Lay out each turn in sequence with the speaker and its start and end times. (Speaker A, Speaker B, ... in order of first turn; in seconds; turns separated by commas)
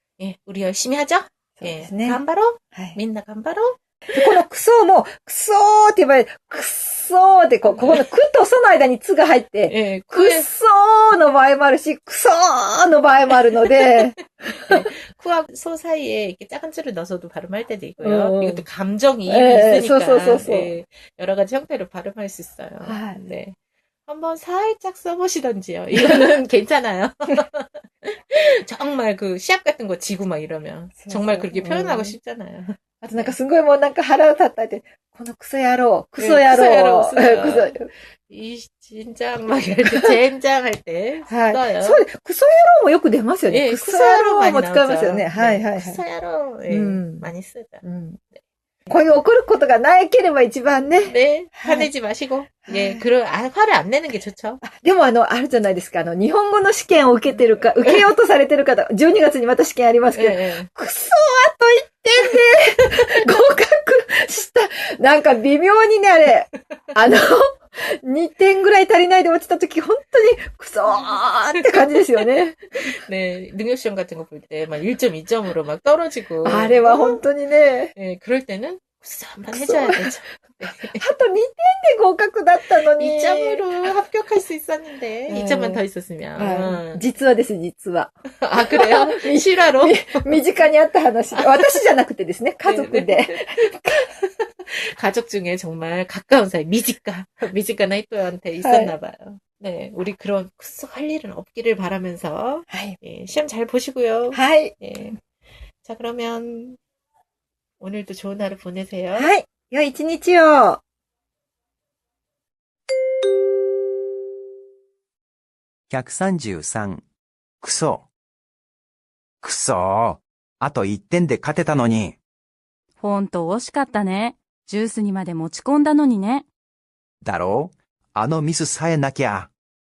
Speaker A: 0.2-4.4, Speaker B: 1.6-2.2, Speaker B: 2.7-3.0, Speaker B: 4.1-14.9, Speaker A: 7.7-8.0, Speaker A: 9.7-10.5, Speaker A: 13.8-23.6, Speaker B: 18.0-18.6, Speaker B: 19.3-20.7, Speaker B: 22.8-23.3, Speaker A: 24.1-33.4, Speaker B: 25.9-26.3, Speaker B: 31.0-32.1, Speaker B: 33.0-37.9, Speaker A: 36.2-42.0, Speaker B: 41.3-46.0, Speaker A: 43.5-47.8, Speaker B: 46.7-47.3, Speaker B: 47.8-48.2, Speaker B: 48.9-51.9, Speaker A: 51.0-54.6, Speaker B: 52.7-53.0, Speaker B: 54.6-72.7, Speaker A: 57.3-58.0, Speaker A: 60.1-60.7, Speaker A: 70.9-77.2, Speaker B: 76.4-77.9, Speaker A: 78.0-81.0, Speaker B: 79.5-83.9, Speaker A: 82.9-87.0, Speaker B: 85.3-85.8, Speaker B: 86.4-94.0, Speaker A: 88.4-90.4, Speaker A: 91.3-91.9, Speaker A: 92.6-105.2, Speaker B: 98.6-98.9, Speaker B: 102.7-103.0, Speaker B: 104.3-104.8, Speaker A: 105.8-106.8, Speaker A: 107.8-109.3, Speaker B: 109.1-110.8, Speaker C: 115.9-117.0, Speaker C: 117.6-118.1, Speaker C: 119.4-122.2, Speaker D: 123.0-126.5, Speaker C: 127.2-129.5